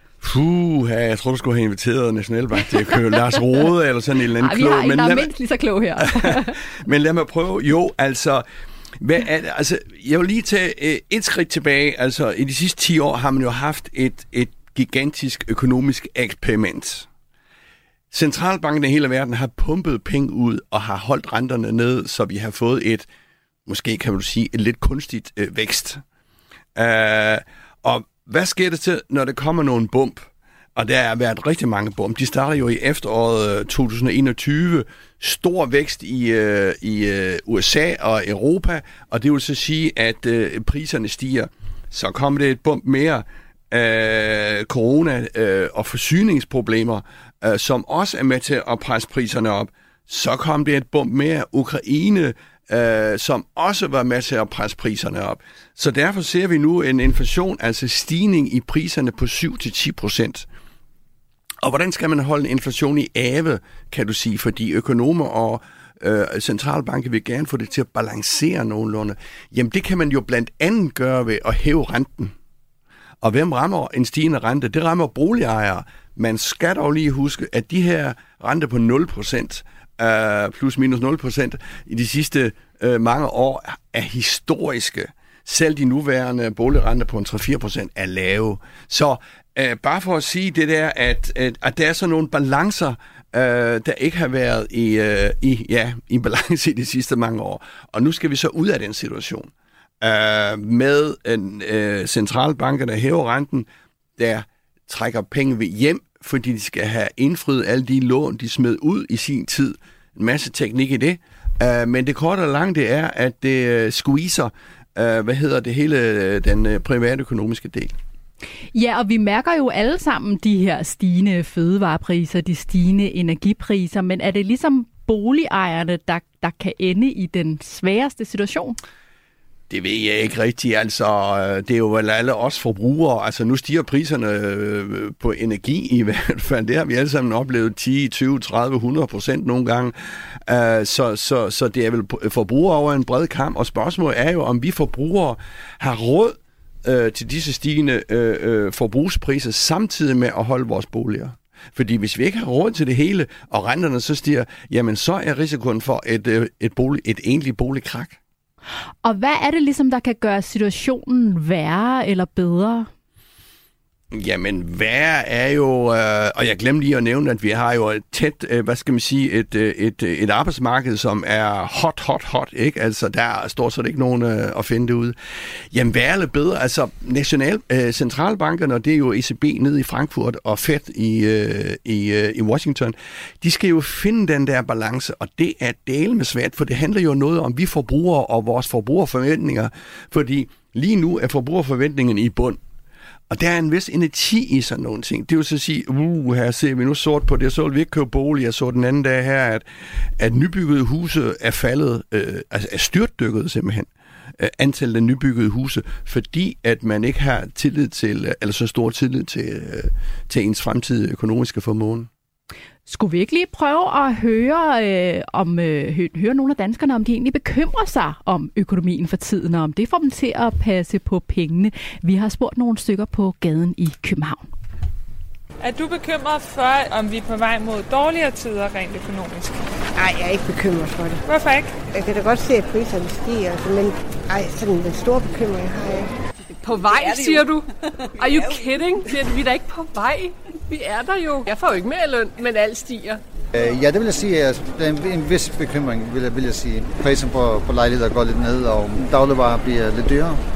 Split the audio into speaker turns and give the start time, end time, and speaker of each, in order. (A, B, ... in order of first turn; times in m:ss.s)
0:00.2-0:05.3 A
0:04.4-0:06.6 B
0:06.1-0:08.4 A
0:09.0-0:17.1 A
0:18.1-0:23.0 A
0:23.7-0:26.0 A
0:26.8-1:00.4 A
1:01.6-1:12.3 A
1:13.2-1:39.5 A
1:40.0-1:58.0 A
1:58.7-2:08.8 B
2:09.7-2:19.9 A
2:20.4-2:38.2 A
2:39.0-2:42.9 B
2:44.1-2:55.1 A
2:55.7-3:12.6 A
3:13.3-3:19.6 A
3:20.2-3:32.1 A
3:32.9-3:44.5 B
3:45.6-3:49.6 C
3:49.9-3:51.2 D
3:51.2-3:51.8 C
3:51.9-3:56.1 D
3:56.6-4:03.2 E
4:03.5-4:10.4 F